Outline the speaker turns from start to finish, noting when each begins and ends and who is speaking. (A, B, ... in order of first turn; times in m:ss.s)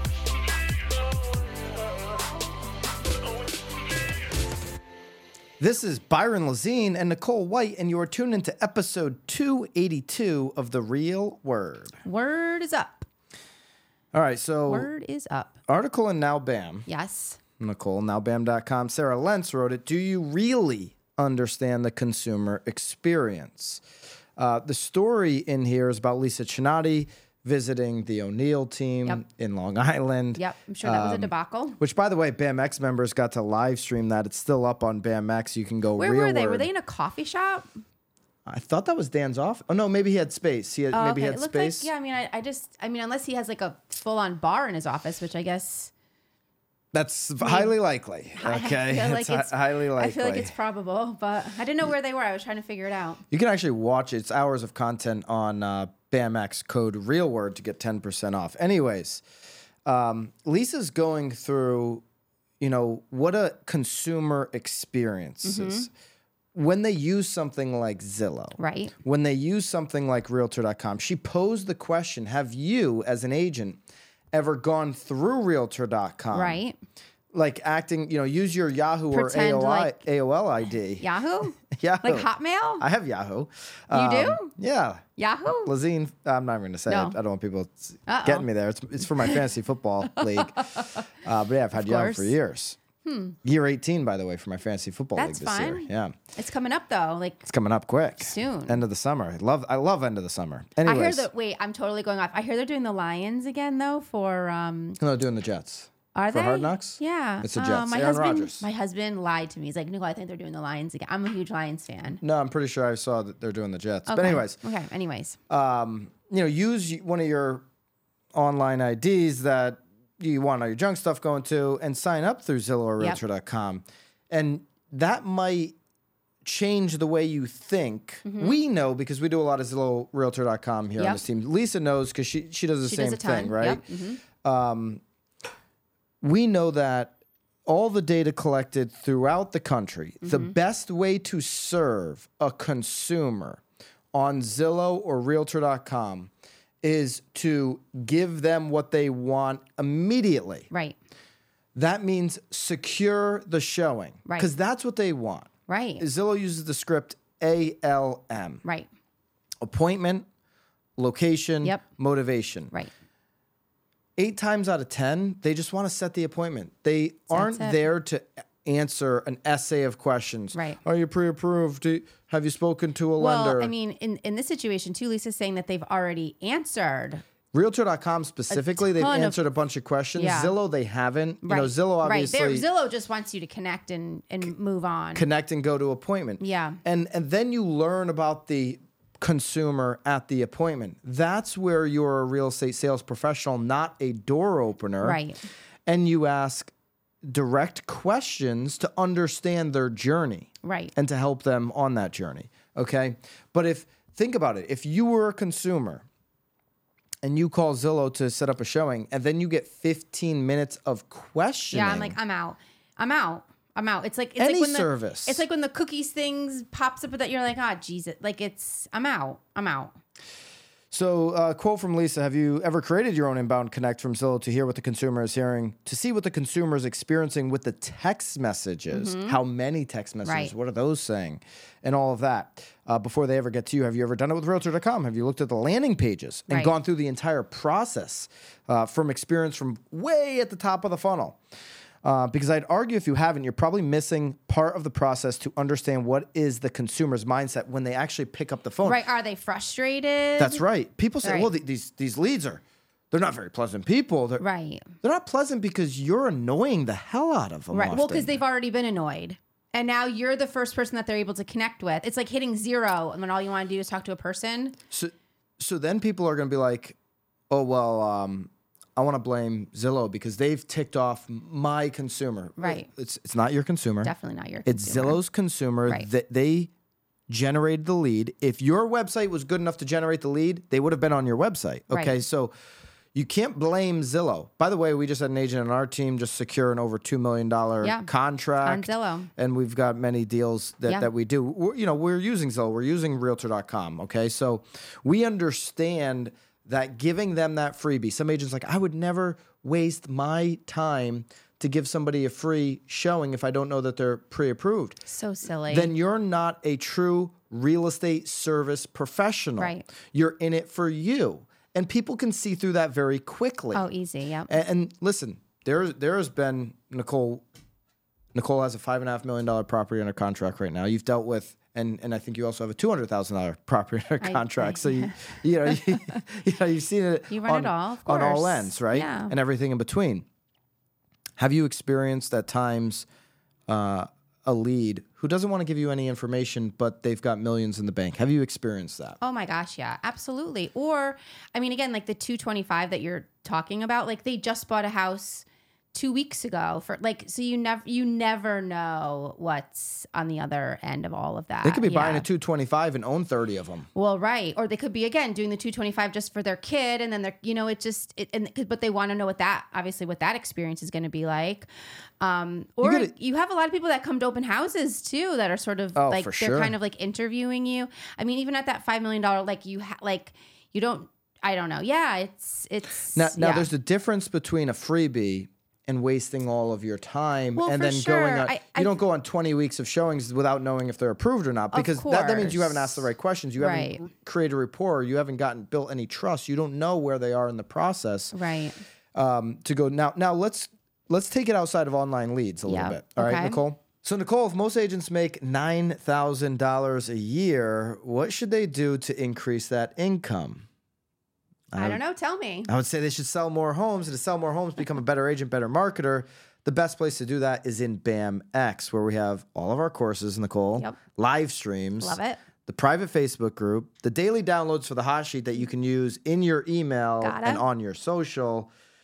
0:05.6-0:12.0 A
0:12.0-0:13.1 B
0:14.1-0:14.9 A
0:14.7-0:15.6 B
0:15.7-0:16.9 A
0:16.9-0:17.4 B
0:17.6-0:23.8 A
0:24.4-0:36.7 A
0:30.4-0:31.8 B
0:36.0-0:37.7 B
0:38.5-0:41.9 A
0:40.9-0:45.9 B
0:46.9-0:50.5 A
0:47.4-0:47.8 B
0:48.4-0:53.2 B
0:53.3-0:59.2 A
0:59.8-1:02.0 A
1:02.6-1:05.9 A
1:05.4-1:05.9 B
1:06.6-1:13.8 A
1:08.6-1:08.9 B
1:14.3-1:16.6 A
1:16.3-1:16.8 B
1:17.3-1:21.1 A
1:19.1-1:20.0 B
1:21.0-1:22.8 B
1:21.7-1:22.3 A
1:22.8-1:25.0 A
1:23.9-1:24.5 B
1:25.2-1:25.7 B
1:25.6-1:32.8 A
1:26.9-1:27.2 B
1:28.1-1:28.5 B
1:29.1-1:29.4 B
1:30.2-1:31.0 B
1:31.7-1:32.3 B
1:33.0-1:33.4 B
1:33.4-1:36.2 A
1:35.2-1:37.5 B
1:37.4-1:41.3 A
1:38.2-1:38.8 B
1:40.8-1:45.0 B
1:45.0-1:48.7 A
1:46.2-1:52.2 B
1:52.2-1:54.6 A
1:54.1-1:55.4 B
1:55.5-1:57.6 A
1:58.4-2:05.8 A
2:06.4-2:13.8 A
2:08.2-2:08.6 B
2:11.0-2:11.2 B
2:12.9-2:14.2 B
2:14.4-2:15.0 A
2:16.2-2:17.2 A
2:17.7-2:23.6 A
2:20.2-2:20.5 B
2:24.1-2:26.3 A
2:26.8-2:30.7 A
2:30.7-2:31.0 B
2:31.8-2:35.5 A
2:35.7-2:36.1 B
2:36.0-2:38.6 A
2:38.6-2:38.9 B
2:39.6-2:40.2 A
2:41.0-2:42.7 A
2:44.2-2:53.7 A
2:47.3-2:47.8 B
2:50.5-2:50.8 B
2:53.2-2:57.2 B
2:57.5-3:02.7 A
2:58.5-2:59.4 B
3:00.2-3:00.5 B
3:01.4-3:05.2 B
3:05.2-3:15.2 A
3:06.4-3:06.8 B
3:15.0-3:15.4 B
3:15.9-3:16.7 A
3:17.2-3:26.0 A
3:20.6-3:20.9 B
3:27.2-3:32.2 A
3:31.7-3:40.0 B
3:34.4-3:35.4 A
3:40.9-4:01.4 A
3:48.9-3:49.4 B
3:50.2-3:50.5 B
4:02.0-4:09.0 A
4:08.8-4:10.6 B
4:10.4-4:14.4 A
4:11.2-4:11.5 B
4:14.4-4:14.9 B
4:15.0-4:18.4 A
4:17.7-4:24.8 B
4:24.9-4:27.0 A
4:27.5-4:34.1 A
4:32.6-4:32.9 B
4:34.0-4:35.2 B
4:34.6-4:36.7 A
4:37.3-4:42.5 A
4:41.9-4:42.2 B
4:43.1-5:05.0 A
4:47.8-4:48.1 B
4:48.6-4:49.3 B
5:05.1-5:05.9 B
5:05.7-5:13.8 A
5:09.6-5:09.9 B
5:13.7-5:14.5 B
5:14.5-5:17.4 A
5:18.3-5:30.3 A
5:24.2-5:26.0 B
5:27.3-5:29.3 B
5:31.4-5:33.1 A
5:33.7-5:39.2 A
5:39.2-5:52.3 B
5:51.6-5:53.9 A
5:54.0-6:01.7 B
6:02.2-6:13.7 B
6:02.8-6:03.1 A
6:06.0-6:06.8 A
6:13.2-6:28.4 A
6:17.6-6:19.0 B
6:21.7-6:24.0 B
6:28.3-6:28.8 B
6:29.2-6:40.7 A
6:32.7-6:33.6 B
6:41.7-6:42.0 A
6:41.8-6:42.7 B
6:42.7-6:58.7 A
6:52.0-6:52.4 B
6:57.2-6:57.6 B